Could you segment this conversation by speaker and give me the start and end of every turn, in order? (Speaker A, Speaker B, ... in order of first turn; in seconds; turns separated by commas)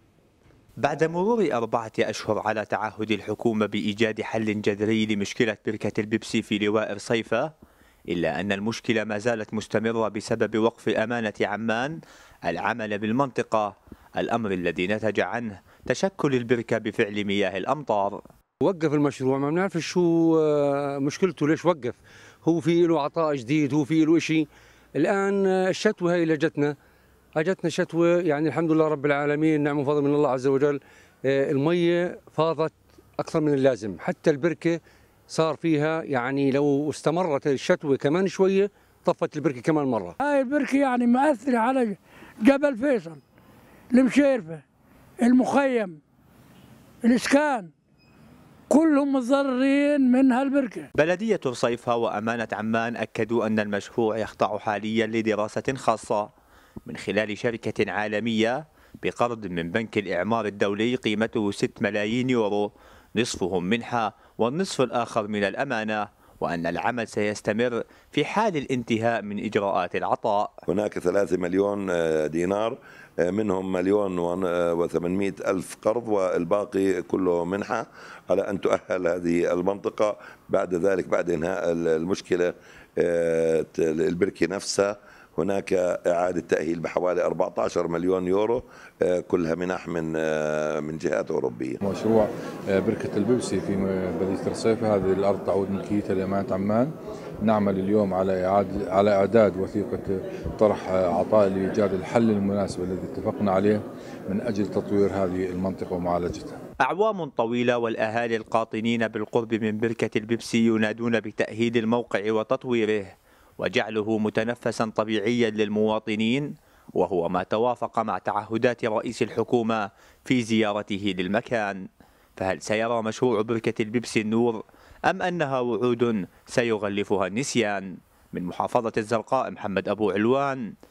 Speaker A: 0.8-7.5, Speaker A: 8.1-18.2, Speaker B: 18.6-26.8, Speaker B: 27.4-40.1, Speaker C: 40.2-43.2, Speaker C: 43.9-44.6, Speaker C: 45.2-46.0, Speaker C: 47.0-47.7, Speaker C: 48.7-50.9, Speaker A: 51.0-56.3, Speaker A: 56.9-70.5, Speaker D: 70.7-91.8, Speaker E: 91.8-106.5, Speaker A: 106.8-121.8, Speaker A: 122.4-130.6